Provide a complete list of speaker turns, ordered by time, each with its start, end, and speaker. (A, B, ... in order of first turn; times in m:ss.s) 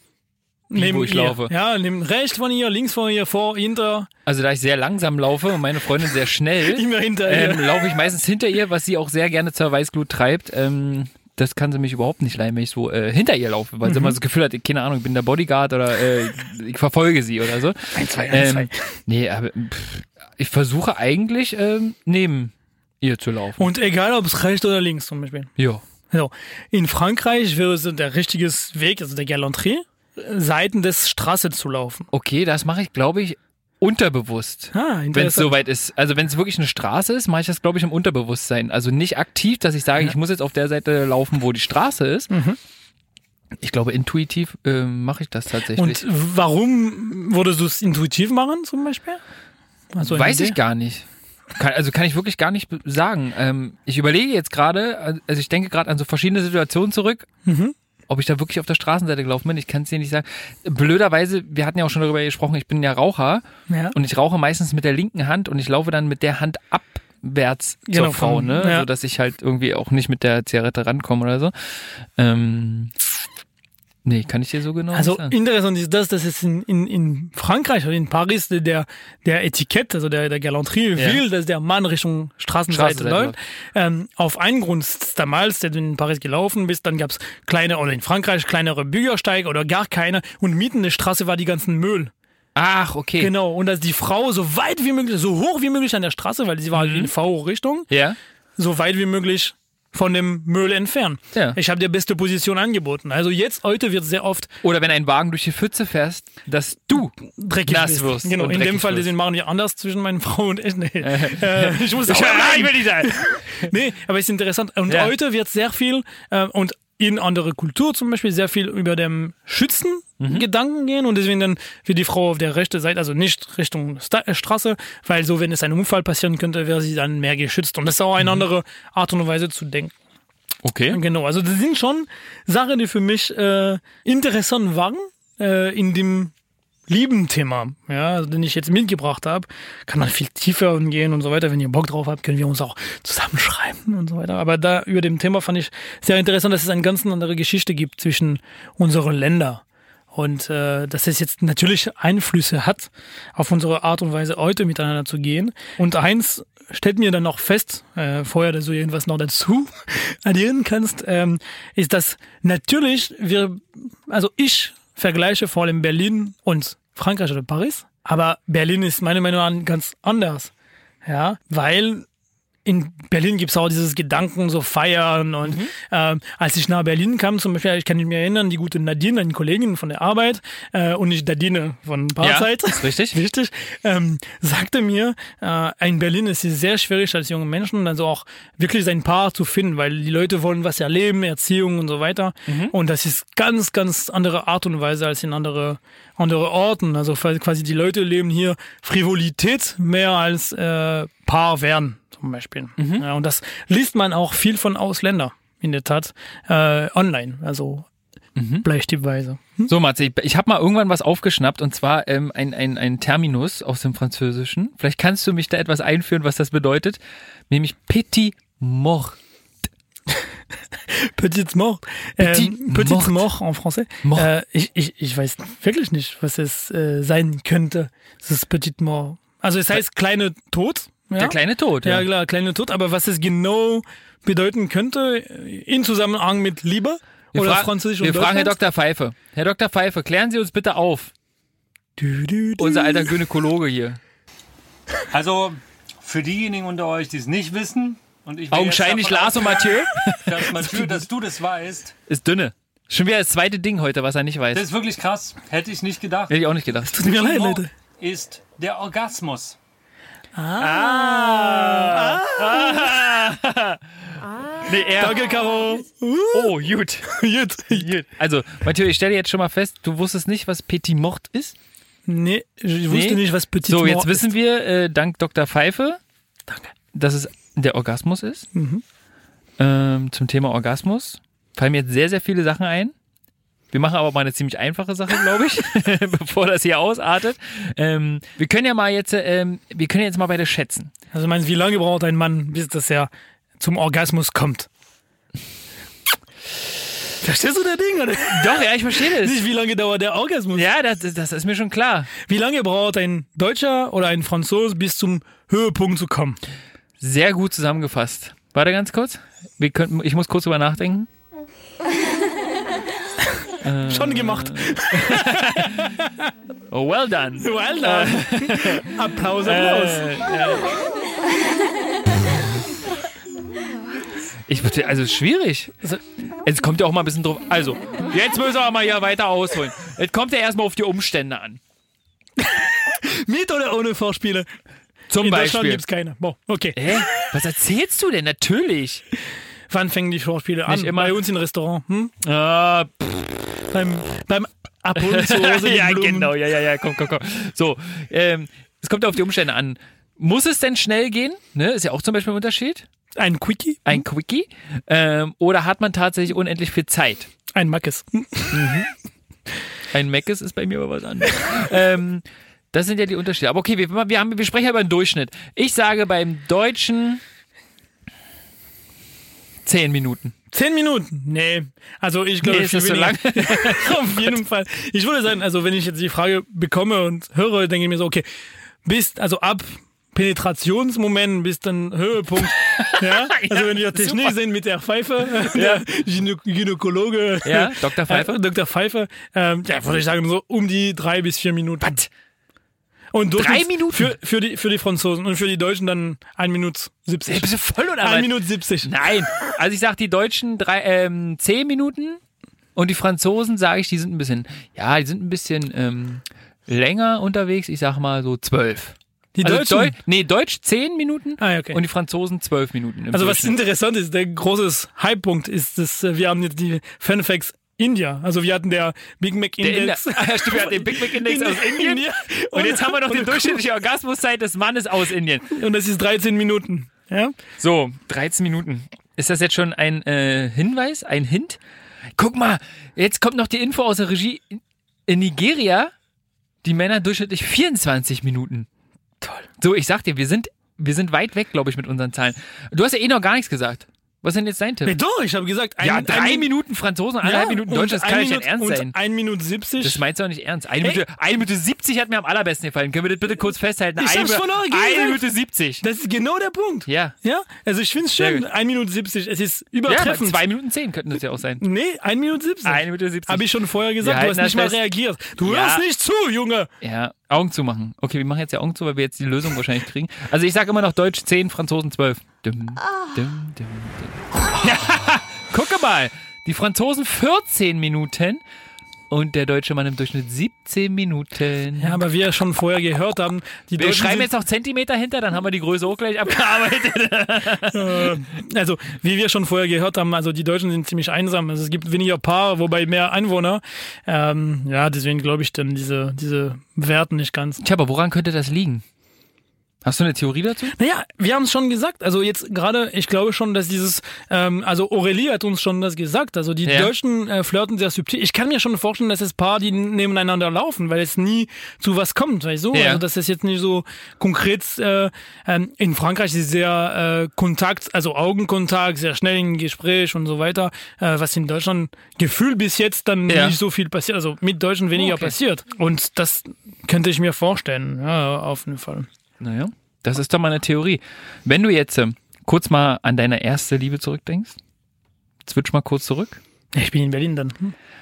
0:00.7-0:04.1 A
0:00.7-0:01.5 B
0:04.2-0:23.7 B
0:06.7-0:07.8 A
0:13.8-0:14.2 A
0:17.9-0:18.7 A
0:23.6-0:25.5 A
0:26.1-0:32.1 A
0:32.1-0:42.3 B
0:34.7-0:35.5 A
0:42.3-0:42.6 A
0:43.6-0:46.0 B
0:45.8-0:49.2 A
0:49.9-0:50.6 A
0:50.0-0:51.0 B
0:51.6-0:57.3 B
0:57.4-0:57.7 A
0:58.1-1:11.5 B
1:03.7-1:04.0 A
1:07.9-1:08.9 A
1:12.2-1:12.9 B
1:14.0-1:15.4 B
1:14.9-1:32.1 A
1:21.0-1:21.2 B
1:22.7-1:23.3 B
1:32.5-1:33.3 B
1:33.2-1:37.9 A
1:36.7-1:37.1 B
1:37.9-1:38.2 B
1:38.6-1:44.5 A
1:44.6-1:49.1 B
1:47.4-2:09.9 A
1:51.0-1:53.7 B
1:54.9-1:55.1 B
2:00.2-2:00.4 B
2:10.6-2:11.0 B
2:10.9-2:16.3 A
2:16.9-2:29.6 A
2:30.1-2:50.5 A
2:51.0-2:52.0 A
2:52.6-3:27.9 A
2:55.4-2:55.7 B
3:02.2-3:03.2 B
3:12.5-3:12.8 B
3:22.8-3:23.0 B
3:28.4-3:28.7 B
3:28.6-3:29.7 A
3:29.7-3:37.0 B
3:37.5-3:39.2 B
3:40.9-3:58.5 A
3:42.2-3:43.3 B
3:44.0-3:44.3 B
3:51.2-3:52.1 B
3:57.3-4:01.1 B
4:02.0-4:03.1 A
4:02.6-4:04.0 B
4:05.1-4:11.9 C
4:08.5-4:10.9 B
4:12.1-4:14.6 B
4:14.5-4:16.3 C
4:16.3-4:17.6 B
4:16.9-4:17.7 A
4:17.2-4:19.6 C
4:20.3-4:23.0 A
4:20.6-4:23.8 B
4:24.6-4:25.4 B
4:25.0-4:26.6 A
4:26.3-4:27.1 B
4:27.1-4:27.9 A
4:27.7-4:31.6 B
4:32.1-4:34.3 A
4:32.9-4:36.0 B
4:36.9-4:38.5 B
4:38.5-4:38.8 A
4:39.6-4:42.9 B
4:43.7-4:50.9 B
4:51.1-4:54.7 A
4:57.2-5:00.6 A
4:58.3-4:59.4 B
5:00.5-5:02.1 B
5:02.2-5:06.4 A
5:07.0-5:11.1 B
5:13.6-5:15.9 B
5:13.9-5:15.9 A
5:16.7-5:20.8 B
5:17.4-5:20.0 A
5:24.5-5:25.7 B
5:26.4-5:31.6 B
5:32.4-5:34.5 A
5:35.1-5:35.8 B
5:35.2-5:37.0 A
5:36.7-5:39.0 B
5:39.7-5:42.1 A
5:40.7-5:41.2 B
5:42.2-5:43.4 B
5:43.7-5:46.3 A
5:45.0-5:52.8 B
5:53.2-5:54.0 A
5:53.8-5:57.3 B
5:57.5-5:58.6 A
5:58.5-5:58.9 B
5:59.9-6:07.2 B
6:09.6-6:10.3 B
6:10.5-6:18.2 A
6:12.4-6:14.3 B
6:18.8-6:32.0 A
6:22.6-6:24.4 B
6:25.5-6:25.8 B
6:27.4-6:28.4 B
6:31.8-6:32.1 B
6:33.1-6:38.9 A
6:33.4-6:34.1 B
6:37.3-6:42.2 B
6:42.8-6:53.6 B
6:49.4-6:49.9 A
6:51.4-6:51.8 A
6:53.1-7:03.6 A
6:59.6-7:05.5 B
7:05.5-7:07.3 A
7:07.6-7:11.6 B
7:12.2-7:15.9 B
7:16.6-7:18.7 B
7:19.6-7:24.9 B
7:24.8-7:26.5 A
7:25.8-7:28.9 B
7:27.2-7:30.0 A
7:29.8-7:35.8 B
7:34.0-7:35.2 A
7:35.8-7:40.4 A
7:36.9-7:37.1 B
7:38.2-7:38.4 B
7:39.9-7:41.6 B
7:41.6-7:46.7 A
7:42.6-7:43.5 B
7:44.0-7:44.8 B
7:45.4-7:45.8 B
7:46.8-7:58.4 B
7:59.1-8:02.0 B
8:01.8-8:04.3 A
8:03.8-8:08.1 B
8:07.7-8:17.6 A
8:17.6-8:18.8 B
8:19.8-8:20.7 B
8:20.7-8:49.1 A
8:26.6-8:26.9 B
8:32.7-8:33.0 B
8:43.3-8:43.6 B
8:45.0-8:45.4 B
8:49.4-8:54.6 B
8:55.4-8:56.4 B
8:56.7-8:57.7 A